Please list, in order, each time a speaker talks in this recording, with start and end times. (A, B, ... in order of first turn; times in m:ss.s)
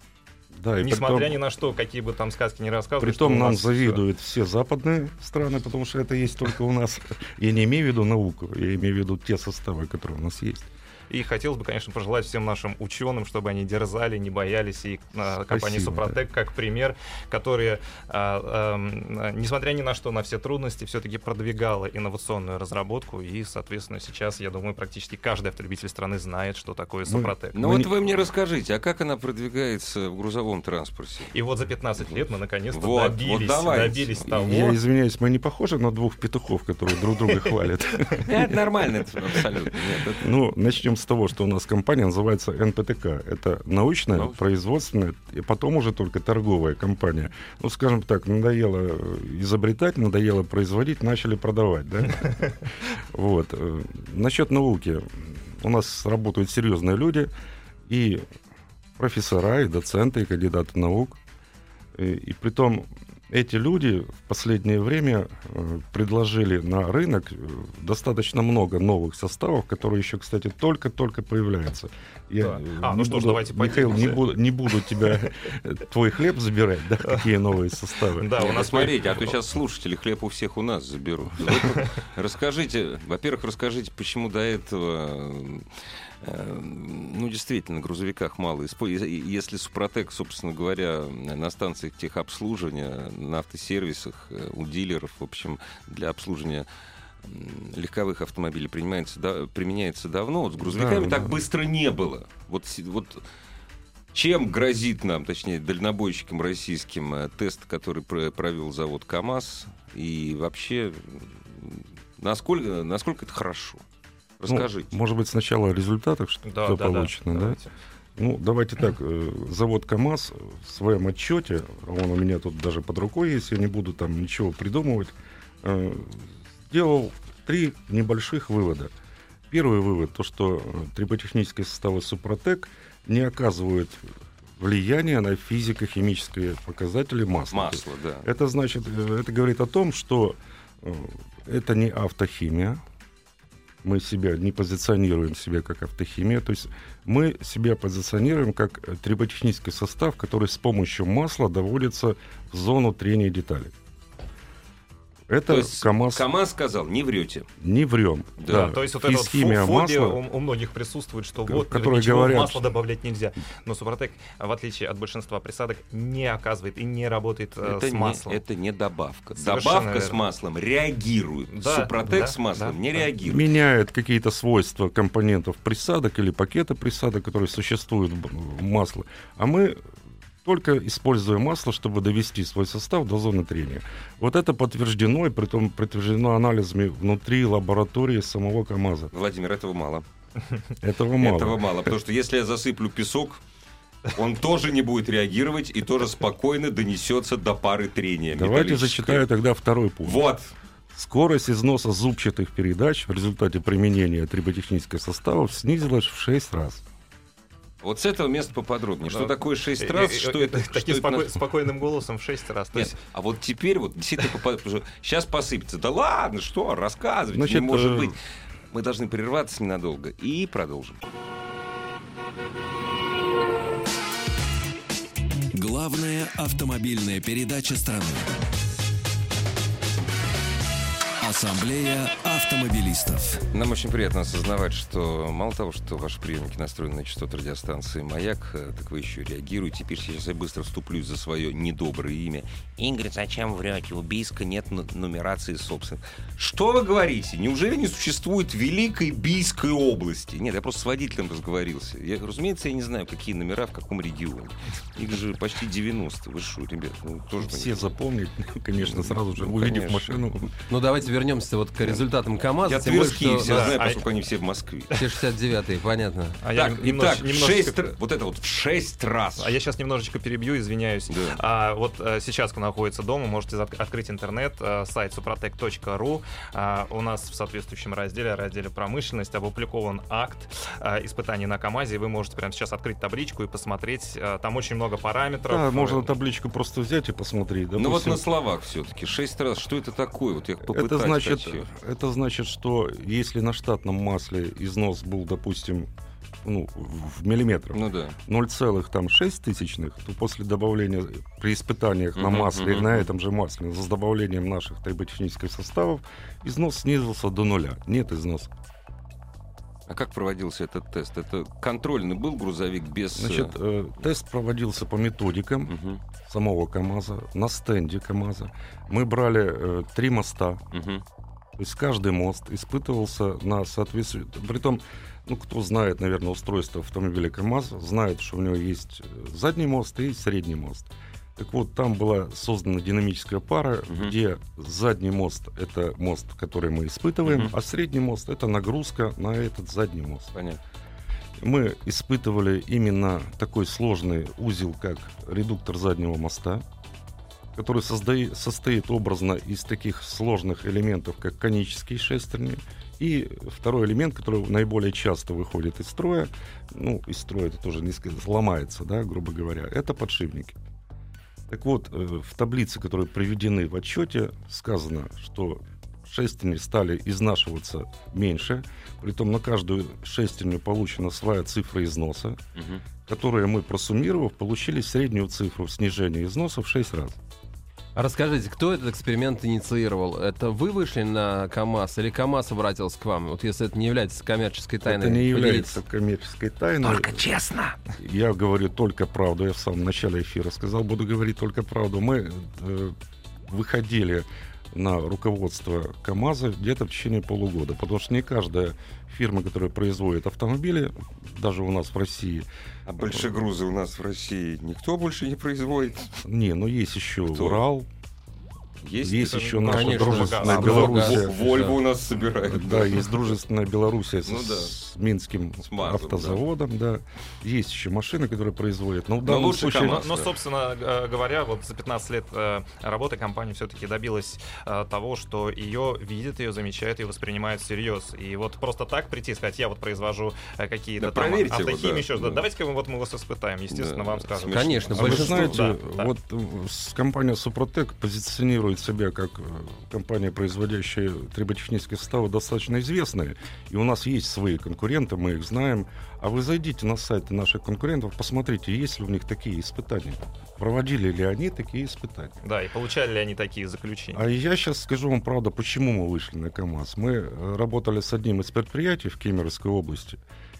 0:00.5-0:01.4 A
0:00.8-0:04.0 B
0:03.0-0:10.7 A
0:11.1-0:27.6 B
0:15.5-0:16.2 A
0:27.1-0:27.9 A
0:27.5-0:31.3 C
0:31.3-0:34.8 B
0:32.7-0:34.3 C
0:34.3-0:38.5 A
0:38.2-0:40.3 C
0:40.2-0:57.3 A
0:57.9-0:58.2 A
0:59.0-1:01.2 A
1:01.9-1:18.3 A
1:12.4-1:14.3 B
1:18.2-1:19.3 B
1:18.4-1:25.7 C
1:21.4-1:21.8 B
1:26.2-1:36.7 C
1:37.2-1:43.2 C
1:40.6-1:41.4 A
1:44.1-1:53.8 C
1:54.4-1:54.9 C
1:54.5-1:57.6 A
1:56.4-1:57.7 B
1:58.2-2:08.9 A
2:09.5-2:14.0 A
2:14.6-2:22.8 A
2:17.5-2:18.2 C
2:23.8-2:33.7 A
2:35.3-2:36.3 A
2:35.5-2:37.5 C
2:37.6-2:40.2 A
2:38.4-2:38.8 C
2:38.4-2:48.4 B
2:41.4-2:42.6 A
2:47.6-2:53.5 C
2:49.4-2:50.2 B
2:51.5-2:53.0 B
2:53.2-2:59.8 A
3:00.4-3:09.1 A
3:09.1-3:10.0 C
3:10.8-3:11.7 A
3:11.2-3:13.4 C
3:14.1-3:19.3 C
3:18.3-3:20.2 A
3:20.0-3:20.5 C
3:20.9-3:26.8 A
3:27.8-3:31.4 C
3:29.1-3:32.9 B
3:32.7-3:41.0 C
3:37.3-3:38.2 A
3:45.5-3:48.3 D
3:51.2-3:53.4 D
3:53.5-4:18.0 C
4:17.4-4:20.5 A
4:18.8-4:20.2 C
4:20.7-4:23.7 E
4:22.6-4:25.0 C
4:23.4-4:24.0 B
4:24.9-4:26.4 E
4:26.4-4:27.9 B
4:26.5-4:29.6 C
4:29.4-4:46.1 B
4:31.1-4:31.4 C
4:45.5-4:48.2 A
4:47.8-4:51.6 C
4:50.6-4:55.9 A
4:56.4-5:08.5 A
4:57.7-4:58.2 C
5:02.2-5:03.1 C
5:09.9-5:13.5 C
5:13.2-5:20.6 A
5:15.7-5:16.0 C
5:20.7-5:21.0 C
5:21.6-5:40.3 A
5:33.9-5:34.1 C
5:37.2-5:37.5 C
5:40.3-5:40.6 C
5:41.4-5:46.6 A
5:47.5-6:00.6 A
6:01.5-6:12.4 A
6:12.6-6:12.8 C
6:13.1-6:17.2 A
6:18.0-6:25.8 E
6:24.8-6:27.3 A
6:26.8-6:27.8 C
6:27.9-6:32.9 A
6:33.5-6:42.4 A
6:42.8-6:46.2 C
6:43.0-6:43.3 A
6:46.2-6:47.9 A
6:47.3-6:47.6 C
6:48.8-6:53.3 C
6:49.0-6:51.4 A
6:49.3-6:51.1 B
6:49.6-6:51.8 E
6:52.4-7:00.0 A
6:54.2-6:54.8 C
6:55.6-6:56.4 C
6:59.2-7:00.3 C
6:59.7-7:16.1 B
7:11.0-7:12.5 C
7:13.7-7:15.6 C
7:14.5-7:15.6 E
7:14.9-7:32.4 A
7:32.4-7:34.2 B
7:34.1-7:40.2 A